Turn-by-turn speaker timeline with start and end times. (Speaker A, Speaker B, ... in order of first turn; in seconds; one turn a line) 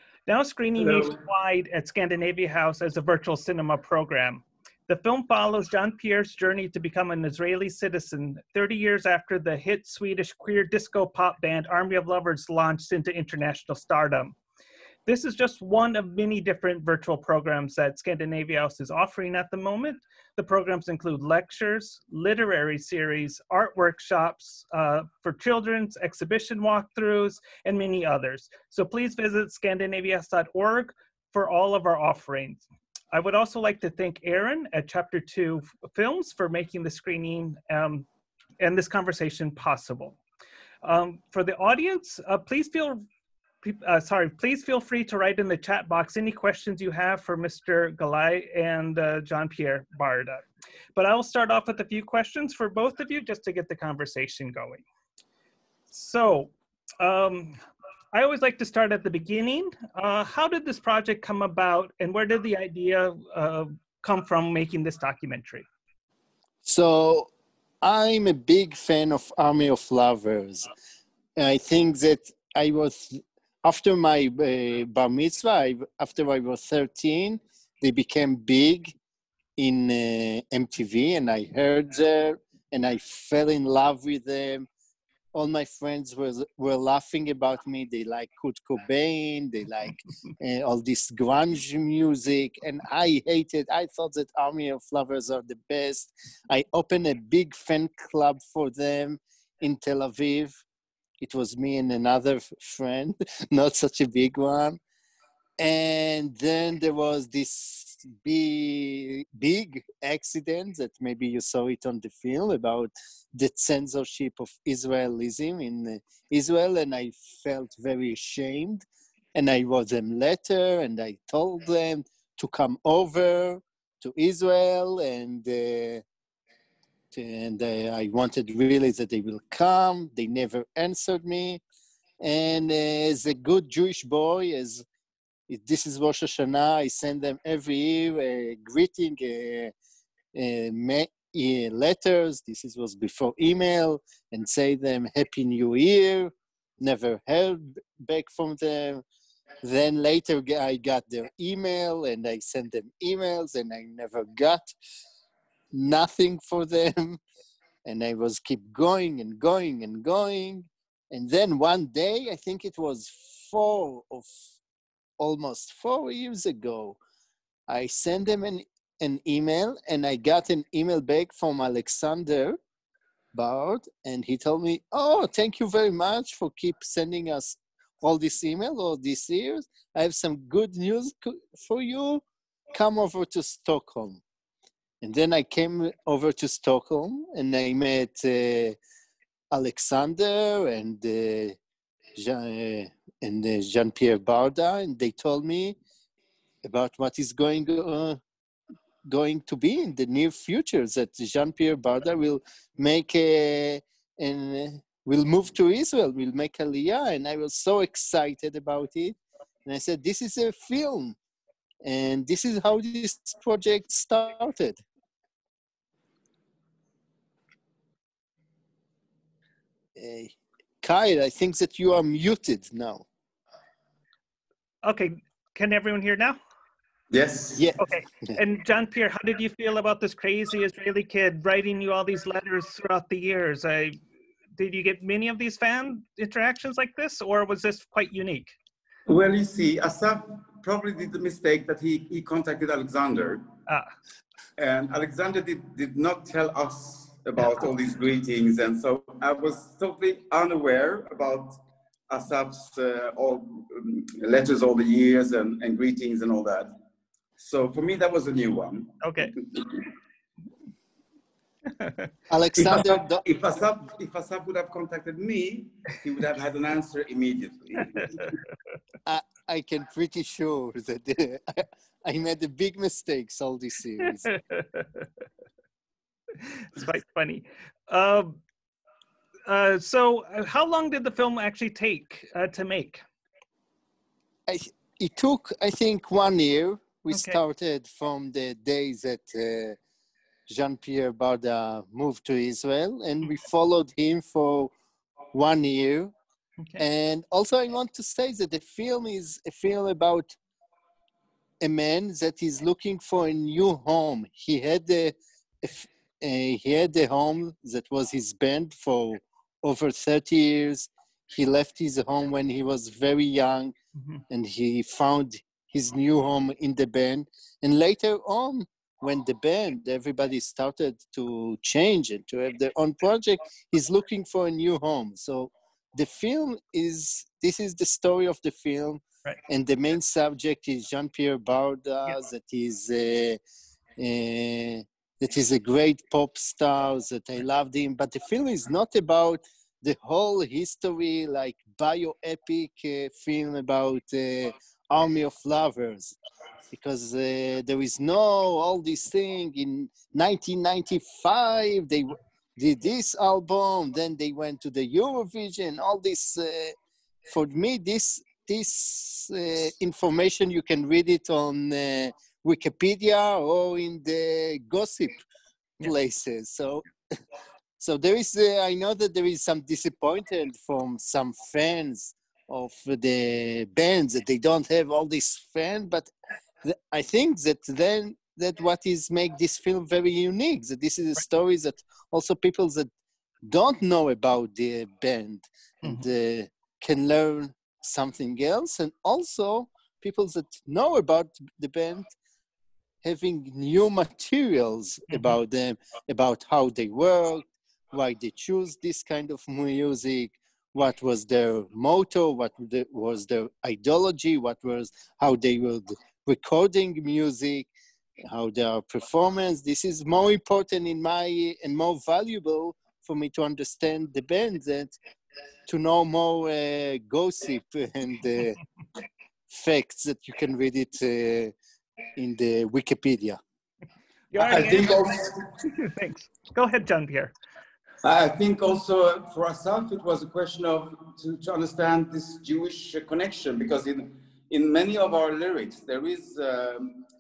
Speaker A: 0.3-14.4
Speaker B: 0.8-1.2
Speaker A: 15.1-38.1
Speaker A: 38.6-40.2
Speaker A: 40.8-43.0
Speaker A: 43.6-50.4
Speaker A: 51.0-54.8
Speaker A: 55.9-57.6
Speaker A: 58.1-65.7
Speaker C: 66.7-67.3
Speaker C: 67.8-70.7
Speaker C: 71.4-79.0
Speaker C: 79.6-84.7
Speaker C: 85.3-100.6
Speaker C: 101.2-104.8
Speaker C: 105.6-126.0
Speaker C: 127.1-131.6
Speaker C: 132.2-134.8
Speaker C: 135.5-139.7
Speaker C: 140.3-149.0
Speaker C: 149.6-154.7
Speaker C: 155.7-157.2
Speaker C: 157.8-164.3
Speaker C: 165.2-167.0
Speaker C: 167.7-172.6
Speaker C: 173.3-184.2
Speaker C: 185.0-188.8
Speaker C: 189.5-191.6
Speaker C: 192.2-195.8
Speaker C: 196.6-198.2
Speaker C: 199.1-211.2
Speaker C: 211.8-214.8
Speaker C: 220.0-223.1
Speaker A: 224.8-226.4
Speaker B: 227.1-227.7
Speaker C: 227.6-228.3
Speaker A: 227.8-234.0
Speaker A: 234.6-238.6
Speaker B: 239.1-243.5
Speaker B: 244.6-256.7
Speaker B: 257.4-259.9
Speaker A: 259.0-259.4
Speaker A: 261.8-262.1
Speaker C: 262.3-263.2
Speaker B: 262.6-268.4
Speaker C: 269.1-274.3
Speaker A: 274.3-275.0
Speaker A: 276.4-278.4
Speaker A: 279.5-283.0
Speaker C: 284.5-289.8
Speaker A: 287.1-287.4
Speaker C: 290.5-294.7
Speaker C: 295.3-296.1
Speaker C: 296.8-300.4
Speaker C: 301.6-313.8
Speaker C: 314.3-333.4
Speaker C: 334.0-346.2
Speaker C: 346.7-356.8
Speaker C: 357.3-365.2
Speaker C: 365.8-366.9
Speaker C: 367.8-376.1
Speaker C: 376.6-382.9
Speaker C: 383.4-392.1
Speaker C: 393.0-407.7
Speaker A: 395.1-395.4
Speaker C: 408.2-415.0
Speaker C: 415.7-418.6
Speaker C: 419.5-421.5
Speaker C: 422.2-423.4
Speaker A: 424.3-427.3
Speaker B: 424.4-425.4
Speaker B: 428.0-437.1